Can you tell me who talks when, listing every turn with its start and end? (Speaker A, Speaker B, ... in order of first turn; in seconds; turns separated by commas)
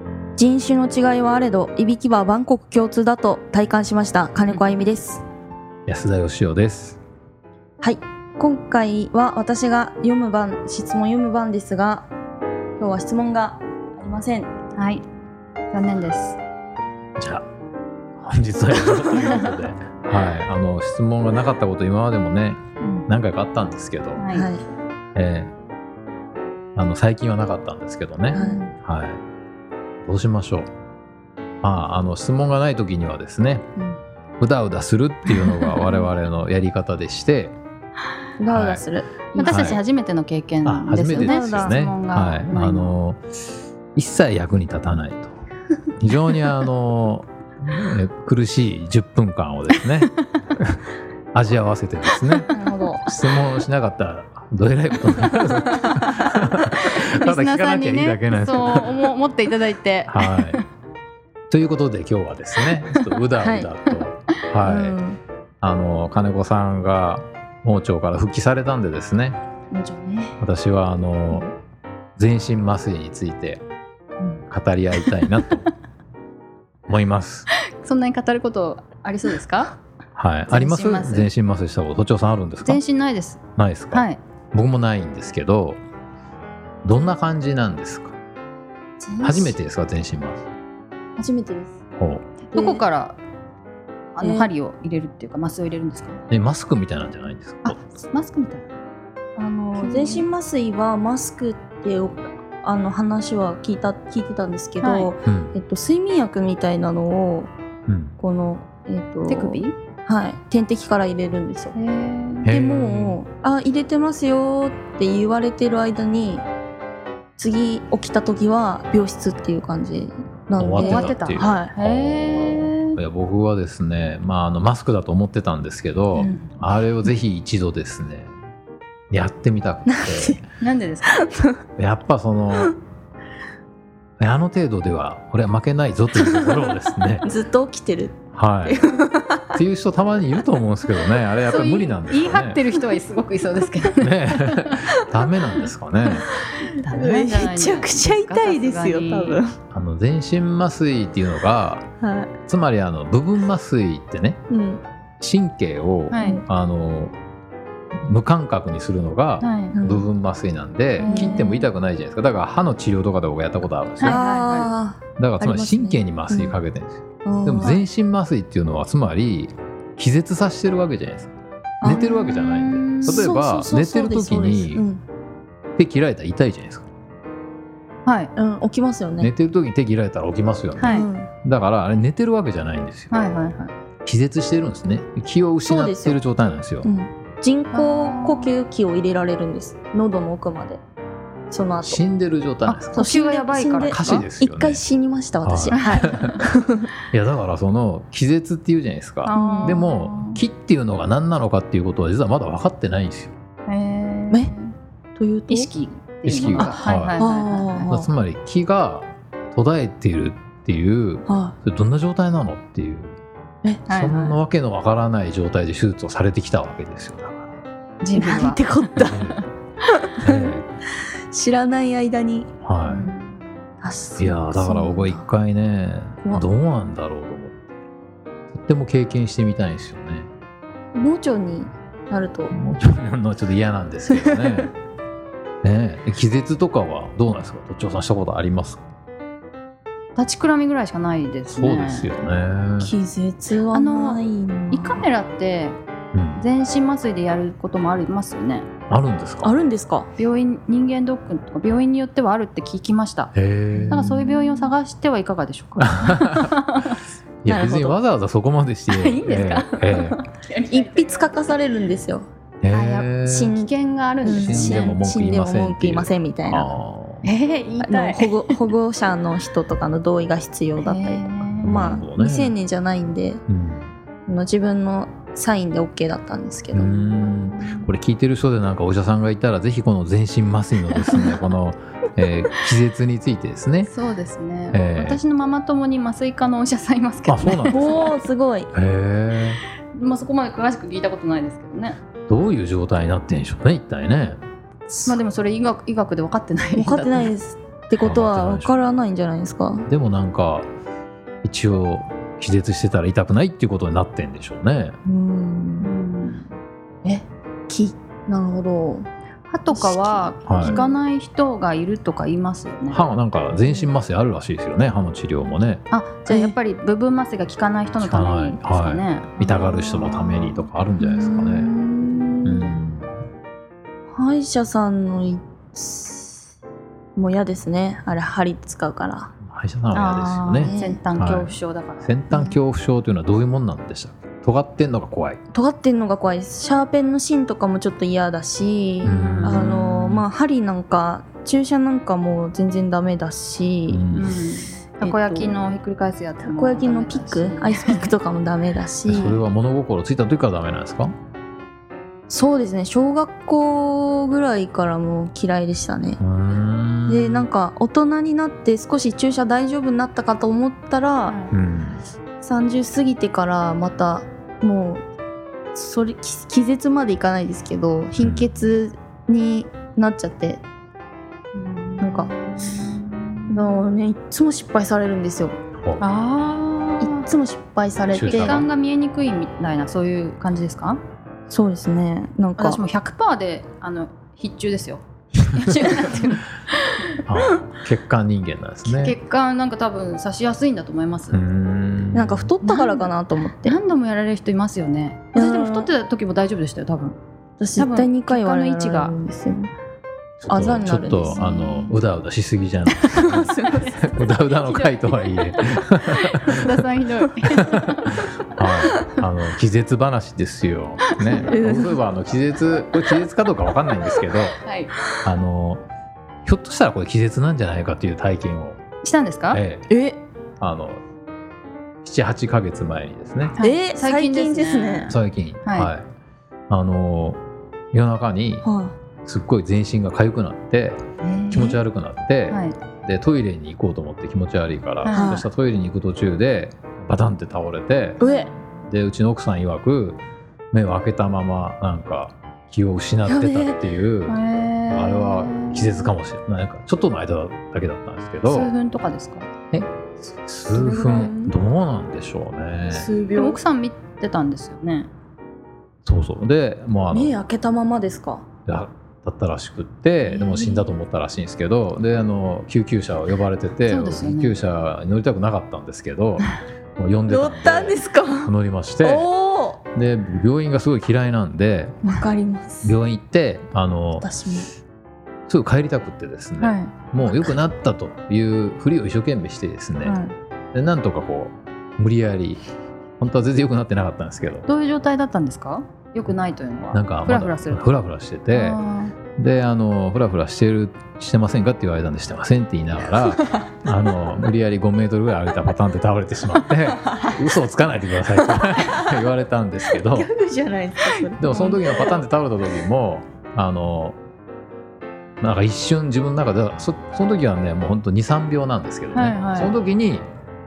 Speaker A: 0.4-5.2, Speaker B: 4.5-4.8, Speaker C: 5.9-7.0, Speaker A: 7.8-12.1, Speaker A: 12.8-14.5, Speaker B: 14.8-15.0, Speaker B: 15.7-16.4, Speaker C: 17.2-17.4, Speaker C: 18.2-24.3, Speaker B: 18.9-19.5, Speaker B: 24.2-24.5, Speaker A: 24.3-24.6, Speaker C: 25.1-25.5, Speaker C: 26.8-29.2, Speaker A: 28.3-28.7, Speaker B: 28.3-28.7, Speaker C: 30.0-30.7, Speaker C: 31.6-33.6, Speaker C: 34.4-37.6, Speaker A: 38.4-39.8, Speaker C: 38.5-38.9, Speaker B: 39.4-42.9, Speaker C: 39.4-39.8, Speaker C: 40.6-43.2, Speaker A: 41.1-41.8, Speaker C: 44.0-45.4, Speaker C: 46.0-50.8, Speaker B: 49.7-50.0, Speaker C: 51.3-52.5, Speaker A: 52.5-53.1, Speaker C: 53.0-59.0, Speaker B: 56.7-60.6, Speaker C: 60.1-60.6, Speaker C: 61.5-65.0, Speaker A: 63.4-63.7, Speaker A: 64.6-65.2, Speaker C: 65.6-69.4, Speaker B: 69.7-70.3, Speaker C: 70.4-71.5, Speaker C: 72.2-73.6, Speaker C: 74.5-75.7, Speaker C: 76.9-77.5, Speaker B: 77.8-79.8, Speaker C: 80.2-82.8, Speaker B: 80.5-81.3, Speaker B: 82.6-83.4, Speaker C: 83.6-85.8, Speaker B: 83.9-84.2, Speaker C: 86.8-88.2, Speaker B: 89.0-89.5, Speaker C: 89.2-90.5, Speaker A: 91.2-91.8, Speaker C: 92.0-92.2, Speaker B: 92.5-93.2, Speaker A: 92.5-92.8, Speaker B: 94.2-96.2, Speaker A: 94.2-94.5, Speaker C: 96.3-97.8, Speaker B: 97.6-98.7, Speaker A: 99.4-107.5, Speaker B: 99.8-100.3, Speaker B: 104.8-105.1, Speaker C: 105.2-105.5, Speaker C: 107.9-108.2, Speaker A: 108.2-111.8, Speaker B: 109.3-109.8, Speaker B: 111.8-112.5, Speaker C: 112.5-113.2, Speaker A: 112.5-116.5, Speaker A: 117.4-121.7, Speaker C: 120.6-128.3, Speaker B: 120.8-123.0, Speaker B: 126.2-126.5, Speaker C: 129.1-130.4, Speaker A: 129.9-130.4, Speaker B: 130.6-131.4, Speaker C: 131.8-132.8, Speaker C: 134.2-137.3, Speaker A: 136.3-139.6, Speaker C: 138.3-138.8, Speaker C: 139.5-142.6, Speaker B: 141.4-144.9, Speaker C: 144.0-146.3, Speaker B: 145.6-149.4, Speaker A: 146.3-149.6, Speaker C: 149.7-151.9, Speaker A: 152.0-152.3, Speaker C: 152.5-154.4, Speaker A: 154.5-154.8, Speaker C: 155.2-157.2, Speaker B: 156.1-156.4, Speaker A: 156.2-156.4, Speaker C: 158.1-164.2, Speaker B: 159.4-159.8, Speaker A: 159.7-160.1, Speaker B: 161.0-161.7, Speaker A: 161.0-161.5, Speaker B: 164.0-164.7, Speaker A: 164.0-166.6, Speaker C: 165.2-174.9, Speaker A: 167.2-167.8, Speaker A: 171.8-172.2, Speaker B: 171.8-173.3, Speaker A: 173.0-175.0, Speaker C: 175.8-176.9, Speaker B: 178.1-178.3, Speaker A: 178.4-179.3, Speaker C: 179.2-183.1, Speaker B: 180.8-181.1, Speaker A: 180.8-181.3, Speaker B: 183.1-183.7, Speaker C: 184.1-186.9, Speaker A: 185.7-186.2, Speaker A: 186.8-190.8, Speaker B: 187.7-188.5, Speaker A: 191.5-192.0, Speaker C: 191.8-193.0, Speaker B: 192.7-194.3, Speaker A: 192.9-196.9, Speaker C: 193.8-194.8, Speaker C: 195.4-196.3, Speaker B: 195.7-196.4, Speaker C: 197.1-203.3, Speaker B: 199.3-200.4, Speaker A: 199.3-199.8, Speaker B: 203.7-204.7, Speaker A: 205.2-205.7, Speaker B: 205.5-207.9, Speaker C: 206.2-207.2, Speaker A: 206.6-208.1, Speaker C: 207.9-213.2, Speaker A: 211.3-211.6, Speaker B: 213.9-214.4, Speaker C: 213.9-217.6, Speaker B: 218.0-219.4, Speaker A: 218.2-219.2, Speaker C: 219.0-219.4, Speaker A: 220.0-220.5, Speaker C: 220.2-220.7, Speaker A: 221.3-222.5, Speaker C: 222.6-223.1, Speaker B: 222.9-223.4, Speaker A: 223.8-225.3, Speaker C: 224.2-227.6, Speaker C: 228.5-230.3, Speaker A: 230.9-232.5, Speaker C: 232.5-234.7, Speaker C: 235.6-238.8, Speaker B: 240.2-242.1, Speaker C: 241.5-242.9, Speaker A: 242.8-245.1, Speaker B: 243.7-245.8, Speaker C: 246.1-246.4, Speaker B: 246.4-248.7, Speaker C: 248.9-249.5, Speaker A: 249.4-250.1, Speaker B: 250.2-253.3, Speaker C: 253.3-254.2, Speaker A: 253.8-254.7, Speaker B: 253.9-257.0, Speaker C: 255.8-256.5, Speaker C: 257.4-260.2, Speaker A: 257.5-258.0, Speaker B: 258.9-261.4, Speaker A: 260.7-262.3, Speaker C: 262.6-263.6, Speaker B: 262.7-264.9, Speaker A: 263.4-263.7, Speaker A: 264.2-266.7, Speaker C: 264.2-267.3, Speaker B: 267.2-268.7, Speaker A: 267.8-273.4, Speaker B: 270.8-272.0, Speaker C: 271.6-272.5, Speaker C: 273.5-273.9, Speaker A: 274.3-277.0, Speaker C: 276.7-283.9, Speaker B: 277.4-277.9, Speaker B: 283.9-288.2, Speaker C: 284.7-285.2, Speaker C: 287.3-288.1, Speaker A: 287.7-288.7, Speaker C: 288.7-289.6, Speaker B: 289.9-292.0, Speaker C: 292.3-294.4, Speaker A: 294.9-295.2, Speaker B: 295.1-297.3, Speaker A: 296.8-299.9, Speaker C: 298.0-298.8, Speaker C: 299.9-300.7, Speaker C: 301.4-305.0, Speaker A: 305.1-305.9, Speaker B: 305.8-306.5, Speaker A: 307.1-309.1, Speaker B: 309.5-313.0, Speaker A: 309.7-311.0, Speaker C: 310.5-310.8, Speaker C: 312.9-315.8, Speaker B: 315.9-320.7, Speaker A: 316.3-316.6, Speaker C: 318.0-321.7, Speaker A: 321.0-322.8, Speaker C: 322.4-323.1, Speaker A: 324.1-326.4, Speaker A: 327.2-329.3, Speaker C: 329.5-335.4, Speaker B: 329.9-332.2, Speaker A: 330.6-331.0, Speaker A: 335.5-344.1, Speaker B: 339.0-339.7, Speaker C: 339.0-340.3, Speaker C: 343.9-344.4, Speaker B: 344.1-348.1, Speaker A: 345.0-345.6, Speaker A: 346.4-349.4, Speaker C: 349.1-351.1, Speaker B: 349.1-349.4, Speaker A: 352.3-356.2, Speaker C: 356.2-357.5, Speaker A: 357.1-361.4, Speaker B: 361.3-361.5, Speaker C: 361.5-362.0, Speaker A: 362.4-365.0, Speaker A: 365.7-370.6, Speaker C: 368.2-368.5, Speaker B: 371.5-373.8, Speaker A: 372.0-372.3, Speaker A: 373.5-375.6, Speaker C: 375.8-376.0, Speaker B: 376.0-377.3, Speaker A: 377.0-378.7, Speaker C: 378.1-378.7, Speaker B: 378.3-381.0, Speaker A: 381.5-382.8, Speaker B: 382.6-387.1, Speaker C: 387.3-389.2, Speaker B: 388.8-391.4, Speaker C: 391.3-392.5, Speaker A: 392.1-393.8, Speaker B: 392.6-393.1, Speaker B: 393.6-397.2, Speaker A: 395.3-395.9, Speaker A: 397.6-399.7, Speaker B: 397.8-399.1, Speaker C: 400.4-406.8, Speaker A: 400.5-401.9, Speaker B: 401.4-401.9, Speaker B: 403.0-408.3, Speaker A: 403.2-403.9, Speaker C: 407.5-414.6, Speaker A: 411.2-412.0, Speaker B: 414.6-414.9, Speaker C: 415.2-415.8, Speaker C: 416.4-418.8, Speaker B: 419.0-419.6, Speaker C: 419.5-419.9, Speaker A: 419.9-420.2, Speaker C: 420.6-421.0, Speaker C: 422.0-423.6, Speaker B: 423.6-425.9, Speaker A: 423.6-425.1, Speaker C: 425.1-426.1, Speaker C: 426.7-427.4, Speaker C: 427.9-428.7, Speaker A: 428.6-428.9, Speaker C: 429.2-438.2, Speaker B: 431.2-431.8, Speaker B: 432.5-432.8, Speaker B: 435.0-435.4, Speaker A: 435.1-435.5, Speaker A: 438.2-438.5, Speaker B: 438.2-438.5, Speaker C: 438.9-440.2, Speaker C: 440.7-444.4, Speaker A: 443.3-443.9, Speaker B: 444.3-446.1, Speaker C: 444.9-448.7, Speaker B: 448.5-449.5, Speaker C: 449.7-453.1, Speaker A: 450.8-451.5, Speaker A: 452.9-453.6, Speaker B: 453.4-455.1, Speaker C: 456.1-457.4, Speaker A: 457.1-458.4, Speaker C: 458.7-469.3, Speaker B: 460.2-460.9, Speaker B: 463.9-464.6, Speaker A: 467.3-469.8, Speaker C: 469.9-472.0, Speaker A: 472.1-473.0, Speaker C: 472.8-474.3, Speaker A: 474.2-474.7, Speaker C: 475.5-480.2, Speaker B: 476.6-476.9, Speaker B: 480.0-480.4, Speaker C: 480.7-482.6, Speaker C: 483.2-484.7, Speaker B: 484.7-487.9, Speaker C: 486.9-488.8, Speaker B: 488.5-489.1, Speaker C: 489.4-500.3, Speaker A: 500.1-502.2, Speaker B: 501.0-501.8, Speaker C: 501.4-504.2, Speaker C: 505.4-510.3, Speaker B: 509.1-509.7